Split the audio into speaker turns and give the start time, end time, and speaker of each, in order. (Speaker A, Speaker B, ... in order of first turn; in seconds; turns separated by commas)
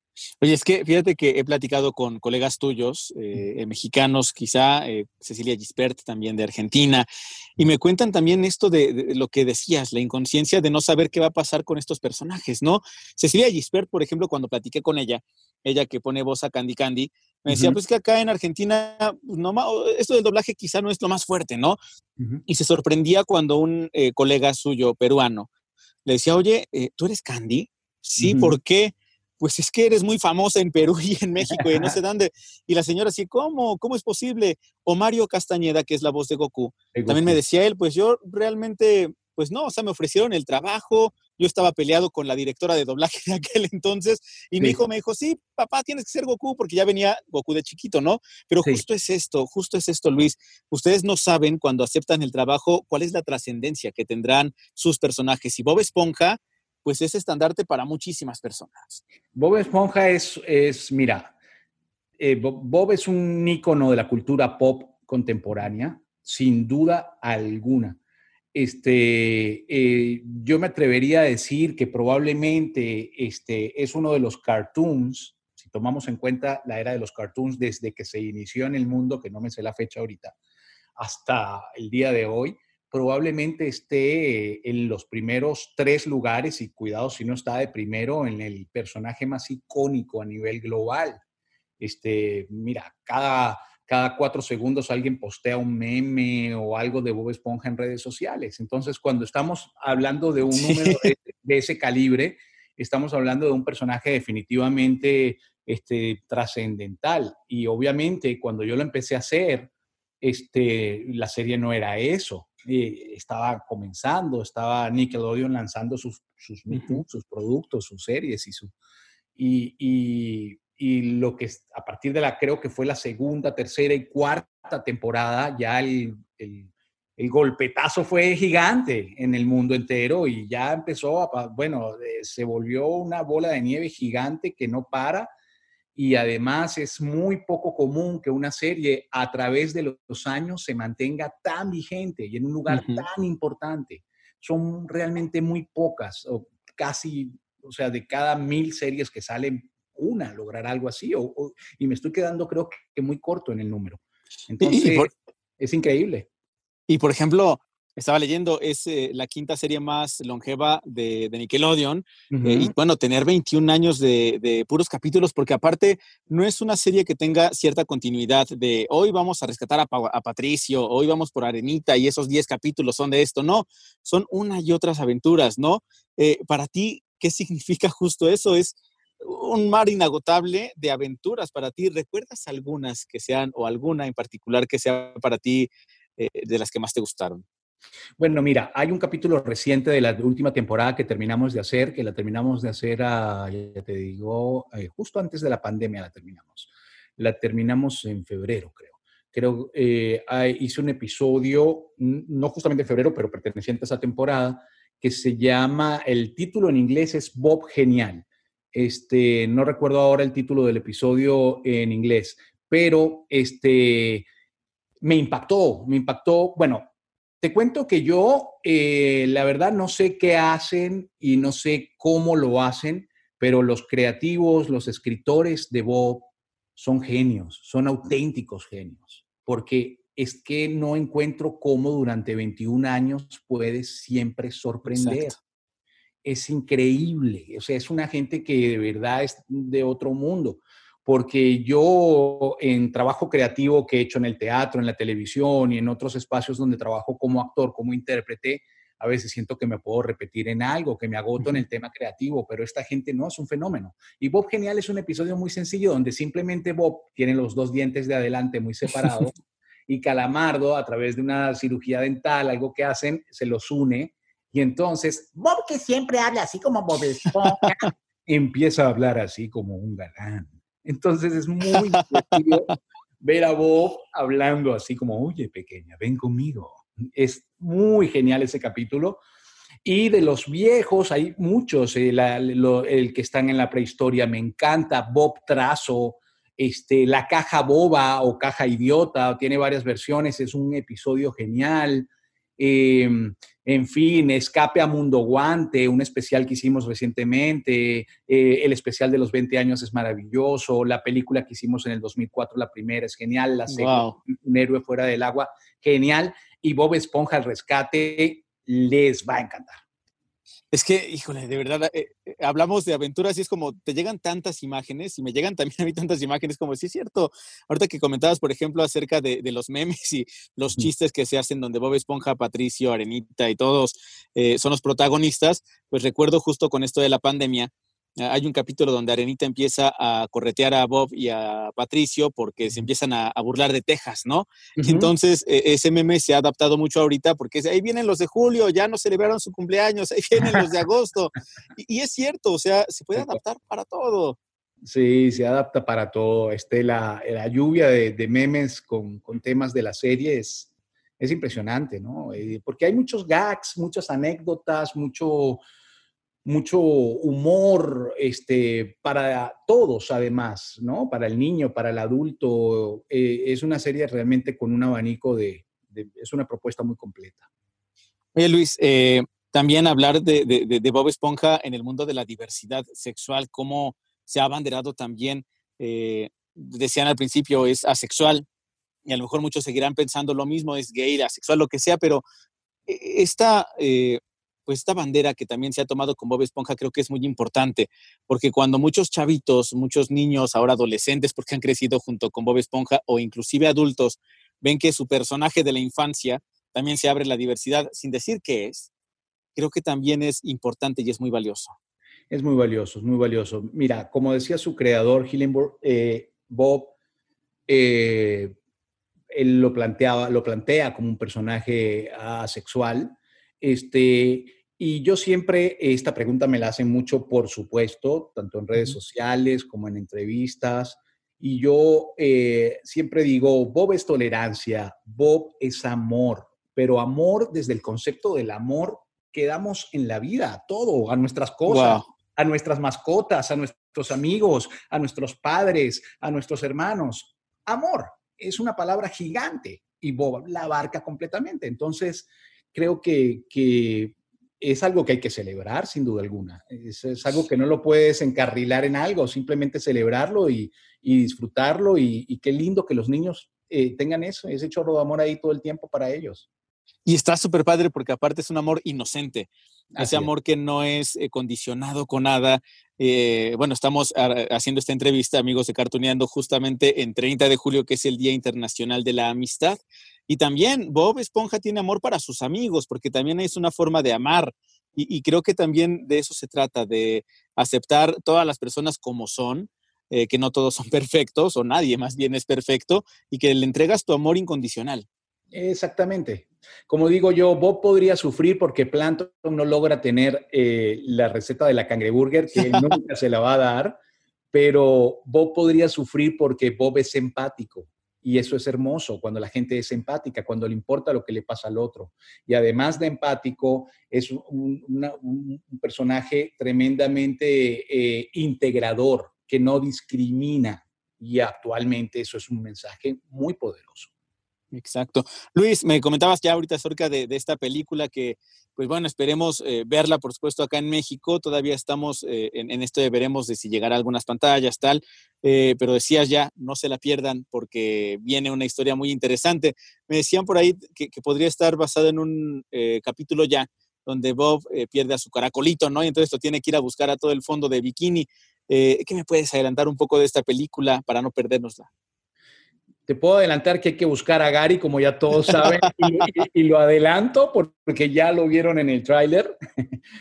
Speaker A: 0.4-7.1, Speaker A: 7.6-21.8, Speaker B: 17.5-17.8, Speaker A: 22.5-25.5, Speaker A: 26.1-59.0, Speaker B: 28.2-28.6, Speaker B: 31.5-32.0, Speaker B: 36.9-37.4, Speaker B: 59.3-61.3, Speaker B: 62.2-68.0, Speaker B: 68.5-80.3, Speaker B: 81.0-91.2, Speaker B: 91.8-109.7, Speaker A: 100.5-101.1, Speaker B: 110.2-118.7, Speaker A: 116.7-117.0, Speaker B: 119.3-135.3, Speaker B: 135.9-156.3, Speaker A: 142.7-143.0, Speaker A: 154.6-155.1, Speaker A: 156.9-187.4, Speaker B: 162.3-162.7, Speaker B: 188.2-214.2, Speaker B: 215.0-216.9, Speaker B: 217.4-235.3, Speaker A: 234.9-235.3, Speaker B: 236.2-259.3, Speaker B: 259.9-265.4, Speaker C: 265.4-267.9, Speaker B: 268.3-279.2, Speaker A: 271.9-272.4, Speaker B: 279.8-309.8, Speaker A: 303.7-304.1, Speaker A: 310.7-344.4, Speaker B: 334.8-335.1, Speaker B: 344.8-350.7, Speaker B: 351.2-355.6, Speaker B: 356.4-367.4, Speaker A: 368.3-378.4, Speaker A: 379.1-382.2, Speaker A: 382.9-398.9, Speaker A: 399.5-401.7, Speaker B: 402.3-406.9, Speaker B: 407.7-408.6, Speaker B: 409.3-456.4, Speaker A: 431.7-432.1, Speaker A: 457.1-485.1, Speaker B: 459.9-460.3, Speaker B: 485.5-494.0, Speaker A: 492.6-492.8, Speaker B: 494.5-514.1, Speaker A: 514.7-541.9, Speaker B: 543.1-549.5, Speaker A: 545.5-546.2